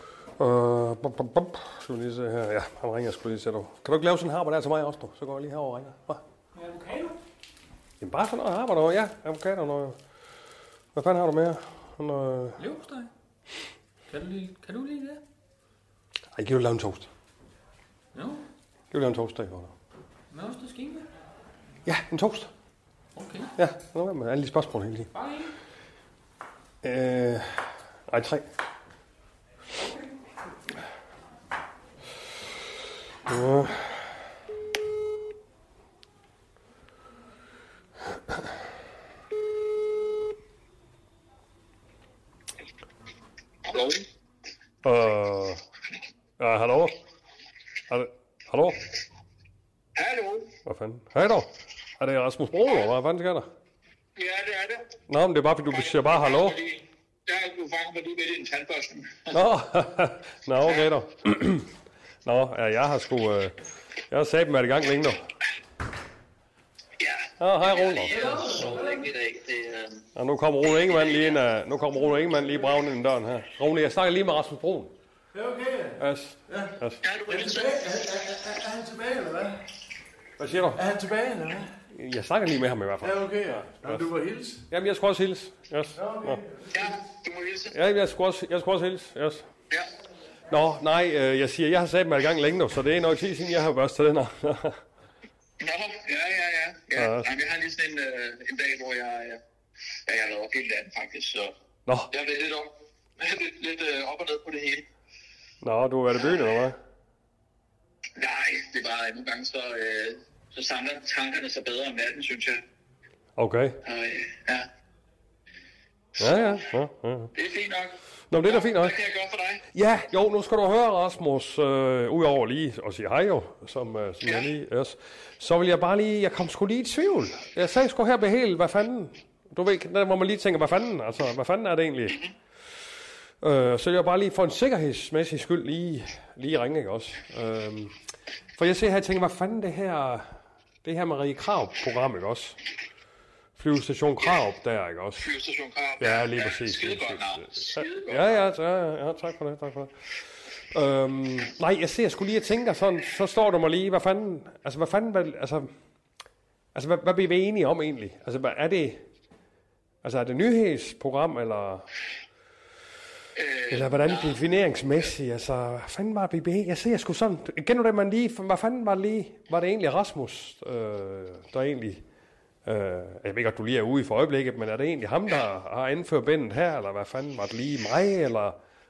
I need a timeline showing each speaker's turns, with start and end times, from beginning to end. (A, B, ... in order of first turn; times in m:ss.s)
0:00.4-0:06.2 A
0:08.0-0:10.0 A
0:10.9-0:12.6 A
0:12.6-0:13.1 B
0:14.1-0:15.2 B
0:16.3-0:17.1 A
0:18.1-0:18.4 B
0:18.9-0:19.7 A
0:20.3-0:21.0 B
0:21.8-0:22.5 A
0:23.1-0:23.5 B
0:23.6-0:25.1 A
0:25.1-0:25.5 B
0:26.8-0:28.4 A
0:33.3-0:34.0 A
0:43.7-0:44.0 C
0:44.8-0:45.6 A
0:46.4-0:47.0 A
0:47.9-0:48.8 A
0:50.0-0:50.4 C
0:50.6-0:53.5 A
0:54.2-0:54.8 C
0:55.1-0:56.6 A
0:55.7-0:59.1 C
0:59.3-1:01.7 A
1:02.2-1:03.5 A
1:04.1-1:05.2 A
1:07.0-1:10.0 C
1:07.4-1:08.9 A
1:08.1-1:09.0 D
1:10.2-1:14.9 A
1:10.6-1:11.4 C
1:15.3-1:16.7 D
1:16.0-1:17.0 A
1:17.0-1:17.9 C
1:17.3-1:19.6 D
1:20.4-1:20.8 A
1:20.7-1:21.7 D
1:21.9-1:24.1 A
1:23.0-1:24.6 D
1:24.7-1:26.4 A
1:25.9-1:26.7 D
1:26.7-1:27.7 C
1:27.7-1:29.5 A
1:30.5-1:34.8 A
1:35.6-1:39.4 C
1:36.9-1:37.3 A
1:40.1-1:41.5 C
1:42.1-1:42.7 C
1:43.3-1:44.8 C
1:45.6-1:46.8 A
1:48.2-1:52.6 C
1:53.4-1:53.8 A
1:53.8-1:54.6 C
1:56.2-1:57.3 A
1:57.3-1:57.9 C
1:58.3-1:59.0 A
1:58.4-1:59.6 C
1:59.7-2:12.2 A
2:13.4-2:17.9 A
2:18.6-2:22.6 A
2:23.6-2:25.2 A
2:25.2-2:28.4 C
2:26.0-2:29.9 A
2:30.7-2:35.7 A
2:36.7-2:39.0 A
2:40.0-2:41.8 A
2:43.4-2:44.4 C
2:43.7-2:52.0 A
2:52.6-2:58.6 A